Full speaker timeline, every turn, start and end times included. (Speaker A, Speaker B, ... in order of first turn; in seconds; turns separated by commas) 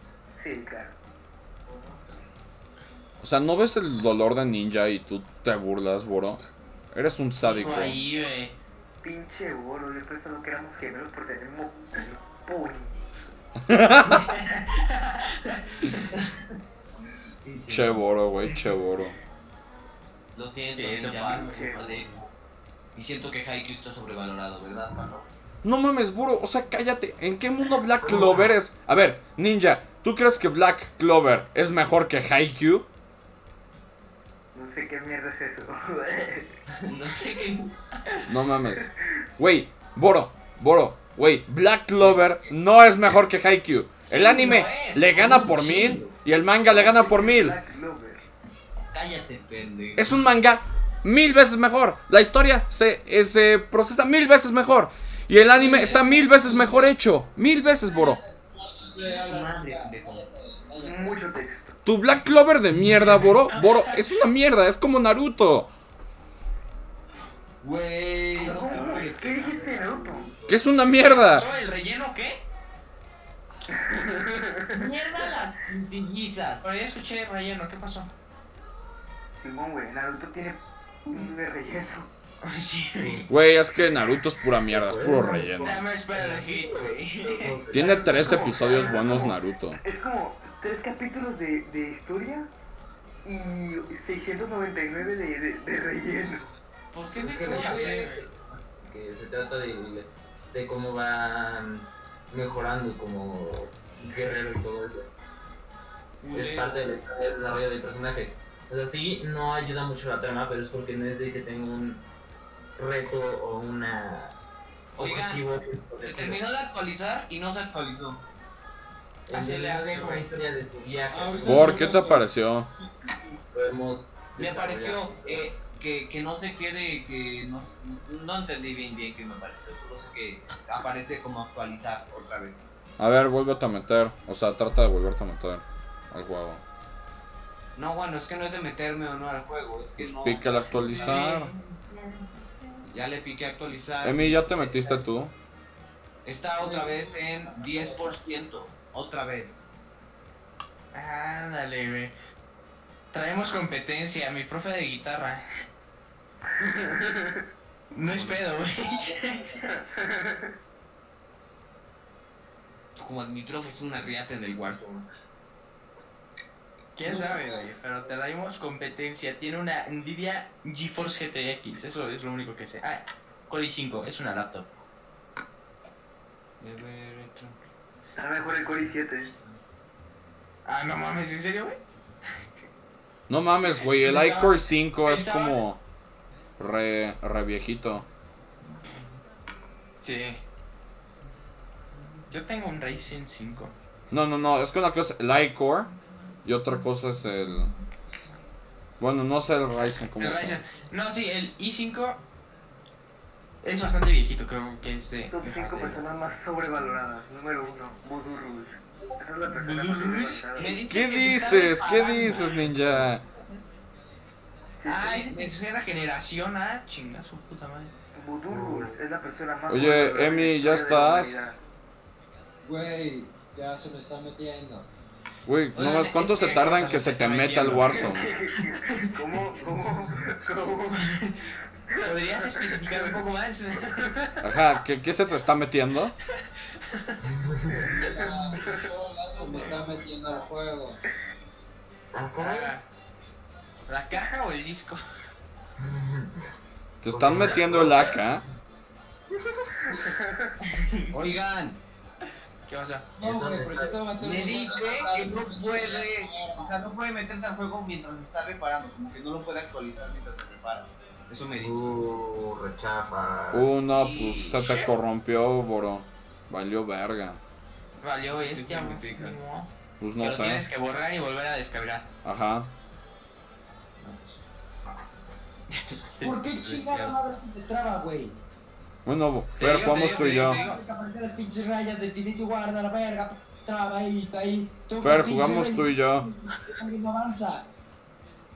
Speaker A: 0.4-0.9, Speaker B: 3.2-6.4, Speaker B: 6.9-8.0, Speaker C: 7.4-8.6, Speaker A: 9.0-12.9, Speaker B: 13.6-14.3, Speaker C: 14.1-16.1, Speaker D: 17.4-18.0, Speaker B: 17.7-19.2, Speaker D: 20.4-22.3, Speaker C: 20.8-21.5, Speaker A: 21.2-22.1, Speaker D: 22.9-25.3, Speaker B: 25.6-32.9, Speaker E: 28.1-28.5, Speaker D: 28.1-28.3, Speaker A: 34.5-36.6, Speaker D: 36.8-37.7, Speaker B: 38.3-47.6, Speaker D: 44.1-46.1, Speaker A: 46.6-48.2, Speaker D: 48.9-50.2, Speaker B: 50.0-58.2, Speaker C: 55.7-56.1, Speaker F: 57.8-61.2, Speaker D: 59.0-60.3, Speaker A: 60.8-61.8, Speaker B: 61.9-65.7, Speaker C: 63.2-64.0, Speaker D: 67.6-70.6, Speaker A: 68.4-70.3, Speaker E: 68.7-69.4, Speaker C: 68.7-69.0, Speaker B: 70.5-71.5, Speaker C: 71.2-72.4, Speaker A: 73.7-74.9, Speaker D: 74.7-76.6, Speaker C: 76.6-78.1, Speaker A: 79.3-82.1, Speaker C: 82.4-83.3, Speaker E: 83.0-83.3, Speaker B: 83.3-85.8, Speaker E: 84.7-89.4, Speaker C: 85.6-89.0, Speaker B: 87.7-89.8, Speaker A: 87.9-92.5, Speaker A: 93.2-96.5, Speaker C: 96.9-98.2, Speaker E: 97.1-105.1, Speaker D: 97.2-98.2, Speaker C: 106.2-106.8, Speaker E: 106.3-112.0, Speaker E: 112.8-114.4, Speaker E: 115.0-116.4, Speaker D: 115.0-115.4, Speaker D: 116.0-118.2, Speaker E: 119.3-122.0, Speaker C: 119.3-120.3, Speaker F: 121.1-122.3, Speaker B: 121.4-122.7, Speaker E: 123.5-125.5, Speaker C: 124.4-125.1, Speaker D: 125.2-132.7, Speaker B: 133.0-136.6, Speaker D: 137.8-141.4, Speaker B: 140.0-141.5, Speaker C: 140.9-142.1, Speaker D: 142.8-145.1, Speaker B: 144.0-145.3, Speaker D: 146.2-149.6, Speaker F: 146.6-146.9, Speaker F: 147.4-148.1, Speaker C: 150.9-152.1, Speaker C: 153.1-155.6, Speaker A: 156.6-157.4, Speaker C: 157.9-159.8, Speaker D: 158.0-158.6, Speaker F: 158.8-159.6, Speaker A: 159.9-160.5, Speaker D: 163.0-165.1, Speaker C: 167.0-174.8, Speaker F: 167.0-167.7, Speaker D: 176.6-177.6, Speaker A: 178.2-179.3, Speaker C: 180.7-181.8, Speaker B: 183.3-185.8, Speaker C: 183.6-185.6, Speaker B: 186.6-188.1, Speaker C: 190.0-190.4, Speaker C: 192.3-193.8, Speaker B: 194.1-195.9, Speaker B: 196.4-197.7, Speaker B: 199.0-200.6, Speaker C: 199.8-202.2, Speaker C: 203.6-206.0, Speaker A: 205.3-210.8, Speaker C: 209.4-210.5, Speaker D: 210.6-213.1, Speaker B: 210.9-213.2, Speaker C: 212.2-212.4, Speaker A: 214.8-215.3, Speaker C: 214.9-217.9, Speaker A: 218.2-221.6, Speaker D: 218.5-218.9, Speaker B: 219.7-221.4, Speaker F: 222.6-224.9, Speaker B: 225.5-228.3, Speaker C: 225.7-229.2, Speaker A: 227.9-231.1, Speaker C: 230.9-231.4, Speaker A: 231.9-233.2, Speaker C: 232.0-234.4, Speaker B: 234.4-236.1, Speaker C: 236.9-237.2, Speaker E: 237.3-237.9, Speaker A: 237.7-238.8, Speaker F: 237.8-241.0, Speaker C: 239.5-239.8, Speaker E: 242.1-242.7, Speaker C: 242.4-242.8, Speaker C: 243.9-245.0, Speaker E: 245.8-246.5, Speaker B: 247.0-248.4, Speaker E: 247.1-248.2, Speaker A: 250.0-250.6, Speaker C: 250.6-251.1, Speaker D: 251.1-251.8, Speaker C: 252.7-253.1, Speaker F: 253.2-256.7, Speaker E: 253.2-254.0, Speaker D: 254.2-262.0, Speaker E: 261.6-263.7, Speaker B: 263.5-267.4, Speaker C: 263.9-264.9, Speaker C: 268.0-272.1, Speaker D: 268.3-269.4, Speaker B: 270.0-270.6, Speaker B: 272.2-272.7, Speaker C: 275.7-277.1, Speaker F: 276.2-278.4, Speaker B: 279.1-280.6, Speaker C: 279.6-280.8, Speaker F: 280.2-287.7, Speaker B: 285.0-286.3